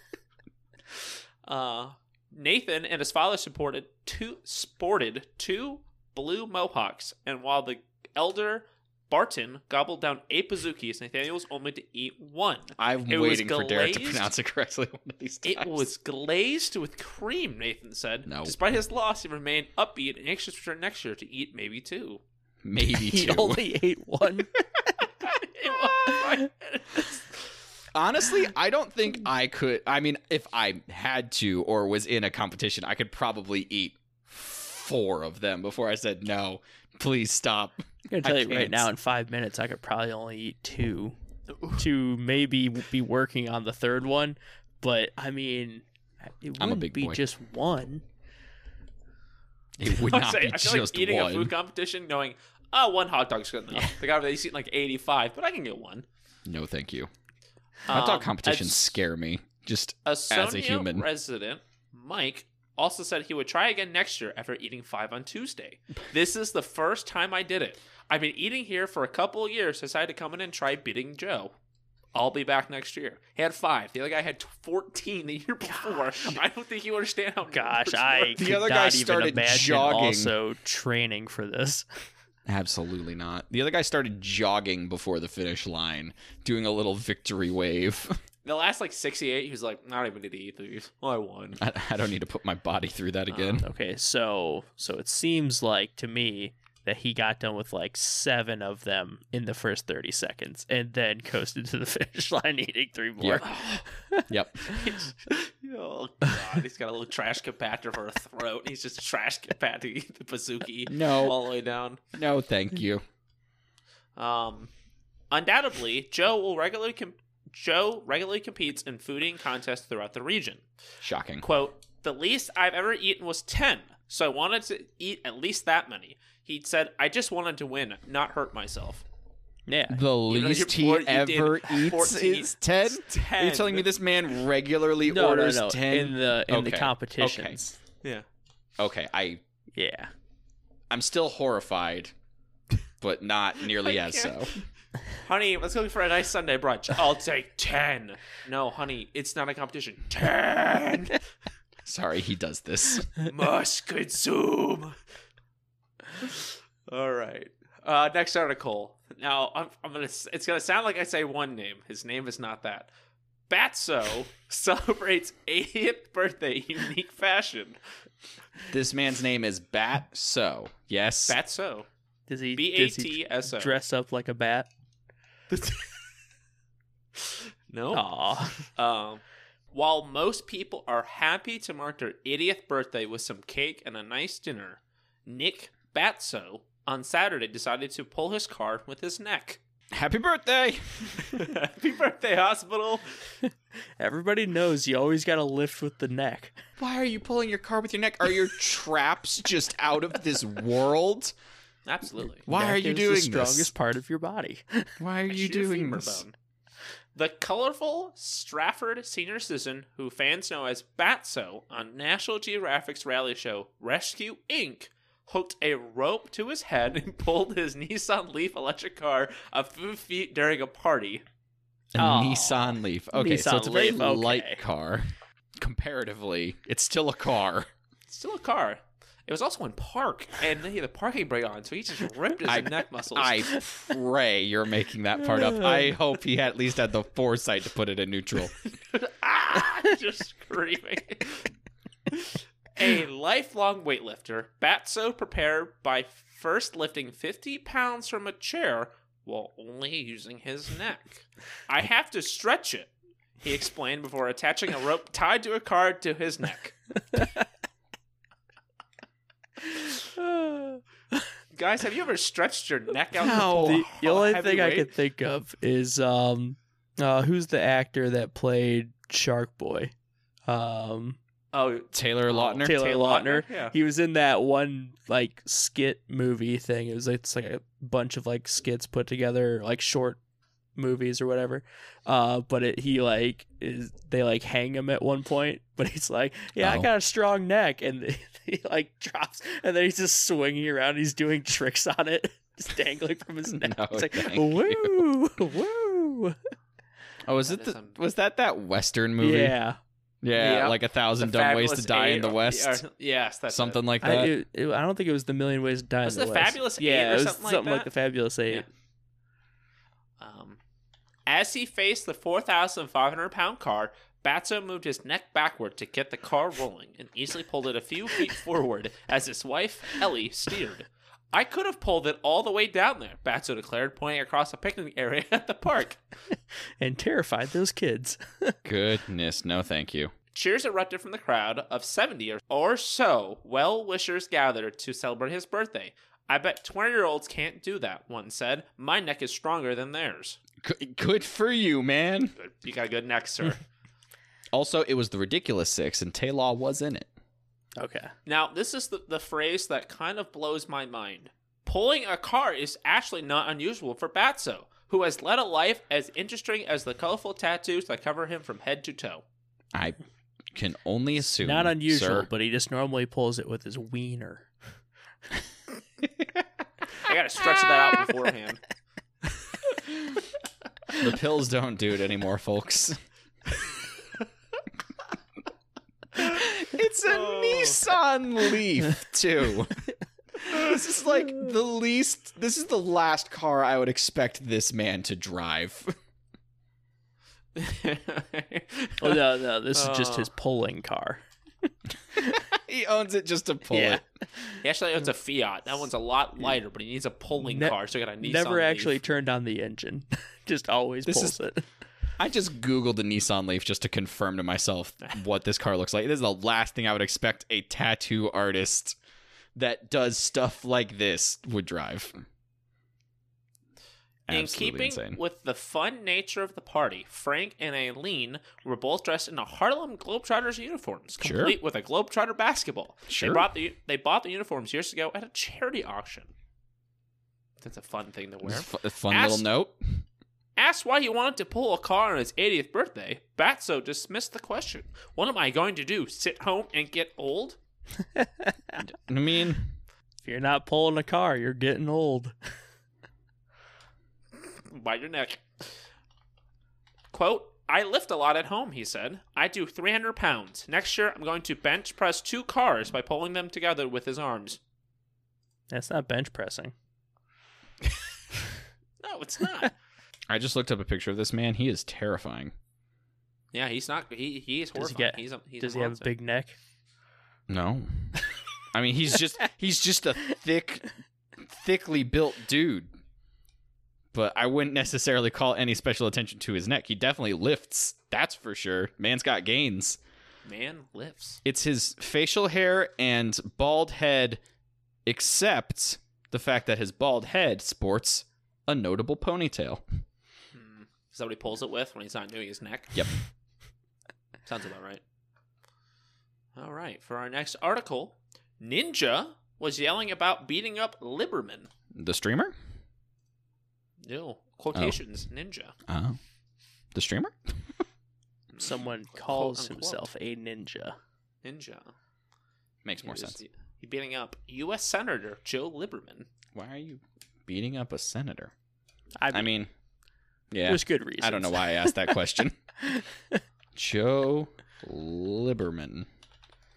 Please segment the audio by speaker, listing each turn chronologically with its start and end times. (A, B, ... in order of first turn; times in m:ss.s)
0:01.4-0:14.3 A
0:12.8-0:15.9 B
0:15.4-0:22.2 A
0:18.2-0:18.6 B
0:22.6-0:23.6 B
0:22.8-0:24.6 C
0:25.2-0:27.2 A
0:26.0-0:26.5 C
0:27.9-0:38.9 B
0:38.1-0:41.2 C
0:41.7-0:48.0 C
0:46.6-0:47.2 B
0:49.8-0:51.5 B
0:49.8-0:56.0 A
0:56.4-0:57.1 B
0:57.9-0:58.9 A
0:57.9-1:01.0 B
1:00.0-1:11.5 A
1:12.1-1:18.4 A
1:15.7-1:16.4 C
1:17.4-1:21.8 C
1:18.4-1:20.3 B
1:22.5-1:28.2 B
1:28.4-1:31.6 A
1:31.6-1:33.6 B
1:33.3-1:33.6 A
1:33.6-1:44.3 C
1:43.2-1:43.5 B
1:43.4-1:43.8 A
1:44.3-1:44.9 B
1:44.7-1:52.0 A
1:50.9-1:51.4 B
1:52.1-1:53.0 B
1:54.2-1:54.7 A
1:55.3-2:00.6 A
2:01.0-2:01.4 B
2:01.4-2:09.0 A
2:09.7-2:10.0 C
2:09.9-2:17.6 B
2:10.3-2:13.9 A
2:15.0-2:17.8 C
2:18.8-2:19.4 B
2:19.7-2:20.1 C
2:20.9-2:22.1 B
2:23.0-2:24.6 B
2:23.7-2:24.6 A
2:25.1-2:31.2 A
2:31.8-2:33.1 B
2:33.1-2:35.0 A
2:36.1-2:42.9 A
2:43.5-2:47.8 A
2:48.7-2:51.4 B
2:51.3-2:51.9 A
2:52.3-2:54.7 C
2:52.5-2:53.8 A
2:55.5-2:55.9 A
2:57.2-3:09.6 A
2:57.9-2:58.7 C
3:09.9-3:11.3 B
3:11.2-3:13.2 A
3:14.0-3:16.6 C
3:16.8-3:21.3 B
3:21.8-3:22.4 A
3:22.4-3:23.7 B
3:22.5-3:24.9 C
3:25.0-3:26.2 B
3:25.3-3:26.3 A
3:27.1-3:41.2 A
3:41.9-3:47.7 B
3:42.0-3:44.6 C
3:48.1-3:53.5 A
3:52.4-3:58.5 B
3:58.9-4:01.4 A
4:02.1-4:16.8 A
4:17.1-4:17.4 C
4:19.7-4:21.2 C
4:21.5-4:24.9 A
4:23.2-4:23.8 B
4:23.2-4:29.9 C
4:30.5-4:31.2 C
4:31.5-4:33.7 A
4:31.9-4:32.8 B
4:32.6-4:40.2 C
4:40.8-4:56.4 C
4:46.6-4:46.9 B
4:53.4-4:55.1 B
4:57.2-4:59.6 B
4:57.4-4:58.0 A
4:59.2-4:59.8 C
5:00.2-5:02.8 B
5:00.3-5:03.8 A
5:03.5-5:04.3 B
5:04.0-5:08.6 C
5:06.0-5:07.9 A
5:10.2-5:10.6 A
5:11.3-5:26.0 A
5:26.8-5:28.6 C
5:28.6-5:30.1 B
5:30.3-5:40.4 A
5:40.6-5:42.3 B
5:42.4-5:43.6 A
5:44.5-5:47.1 B
5:47.8-5:48.1 C
5:48.2-5:59.2 A
5:59.7-6:00.0 B
6:00.5-6:02.3 B
6:01.2-6:04.5 C
6:07.0-6:08.6 A
6:10.9-6:13.0 B
6:16.2-6:19.8 B
6:17.0-6:17.8 A
6:20.4-6:25.9 B
6:27.5-6:29.2 A
6:29.0-6:31.7 C
6:29.7-6:30.3 A
6:32.2-6:34.0 B
6:33.7-6:34.5 C
6:34.6-6:39.0 A
6:37.4-6:41.7 C
6:41.0-6:41.4 B
6:42.2-6:49.0 B
6:49.6-6:52.2 B
6:54.3-6:55.2 B
6:54.3-7:06.3 A
7:01.2-7:01.6 B
7:03.1-7:03.4 B
7:07.6-7:09.5 A
7:08.4-7:10.0 B
7:10.6-7:17.6 A
7:18.1-7:18.8 C
7:18.8-7:19.7 B
7:20.2-7:22.4 C
7:24.4-7:25.7 A
7:27.1-7:34.6 A
7:35.7-7:36.7 C
7:39.0-7:39.7 A
7:40.3-7:42.5 B
7:43.5-7:46.1 A
7:44.7-7:46.6 C
7:47.5-7:50.9 B
7:51.4-7:52.9 B
7:54.1-8:00.0 B
8:00.4-8:01.4 A
8:01.4-8:04.4 B
8:05.0-8:09.8 B
8:10.5-8:13.1 A
8:14.4-8:15.0 A
8:16.6-8:21.7 A
8:21.9-8:22.5 B
8:24.0-8:25.7 A
8:25.9-8:26.2 B
8:26.9-8:27.8 B
8:28.5-8:30.0 A
8:28.6-8:31.0 C
8:31.4-8:31.9 A
8:32.8-8:33.4 B
8:33.0-8:36.3 A
8:36.5-8:38.5 B
8:39.2-8:39.5 C
8:39.3-8:39.7 B
8:40.5-8:42.6 B
8:40.6-8:42.2 C
8:42.8-8:43.4 C
8:43.8-8:46.1 B